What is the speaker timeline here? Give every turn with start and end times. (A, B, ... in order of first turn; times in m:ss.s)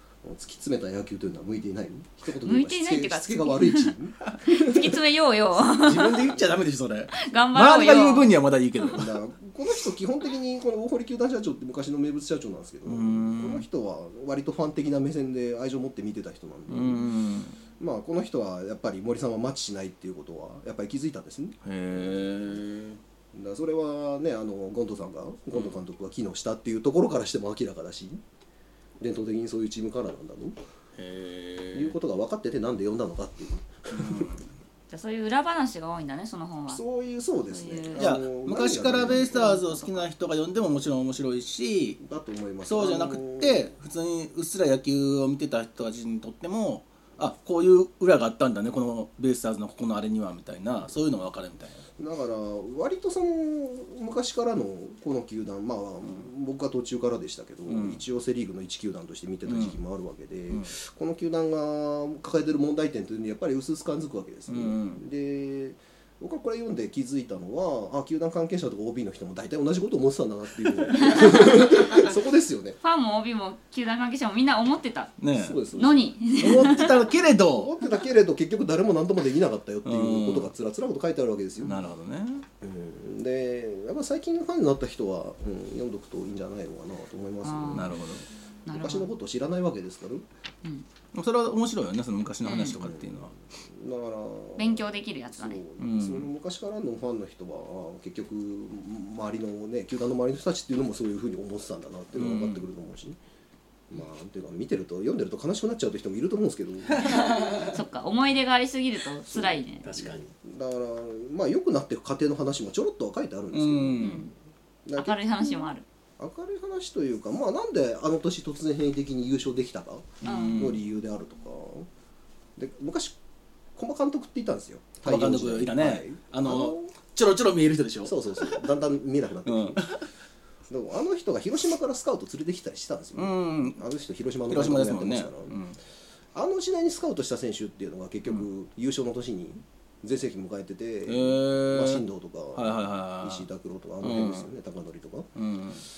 0:00.2-0:05.0 A
0:02.4-0:06.3 B
0:05.7-0:09.2 C
0:07.1-0:08.4 B
0:08.9-0:17.1 A
0:12.9-0:13.6 C
0:16.7-0:17.6 C
0:17.8-0:22.3 A
0:21.6-0:23.0 C
0:23.3-0:28.2 A
0:29.0-0:30.6 A
0:31.0-0:32.0 C
0:31.7-0:34.3 A
0:33.9-0:34.4 C
0:34.9-0:36.8 B
0:36.7-0:39.9 A
0:37.5-0:38.1 B
0:38.0-0:42.0 C
0:42.0-0:43.7 A
0:42.6-0:51.8 C
0:52.0-1:12.8 A
0:57.7-0:58.0 C
0:59.5-0:59.8 C
1:04.5-1:05.0 C
1:11.0-1:12.0 B
1:12.8-1:15.2 B
1:15.2-1:15.6 C
1:15.3-1:21.8 A
1:15.7-1:17.0 B
1:16.4-1:17.7 C
1:19.8-1:20.5 C
1:21.6-1:22.5 C
1:22.6-1:28.0 A
1:27.4-1:27.9 B
1:27.7-1:28.2 C
1:28.7-1:29.1 B
1:28.7-1:30.2 A
1:31.1-1:33.3 C
1:32.4-1:32.8 B
1:32.8-1:43.2 A
1:34.6-1:35.6 B
1:35.8-1:36.3 C
1:42.2-1:42.7 C
1:43.9-1:47.2 A
1:46.9-1:47.8 C
1:47.6-1:49.9 B
1:49.3-1:54.2 A
1:49.8-1:50.2 C
1:53.5-1:54.2 C
1:54.0-1:54.3 B
1:54.9-1:55.5 A
1:55.0-1:55.8 B
1:56.2-2:01.9 A
2:00.2-2:00.8 C
2:00.2-2:00.6 B
2:02.6-2:03.2 A
2:03.8-2:06.9 A
2:05.0-2:08.6 C
2:08.0-2:09.9 A
2:09.5-2:10.1 C
2:10.7-2:15.6 A
2:13.2-2:13.8 C
2:14.5-2:15.8 C
2:16.3-2:25.3 A
2:21.1-2:22.0 C
2:22.6-2:23.5 C
2:24.0-2:24.5 C
2:25.4-2:25.8 C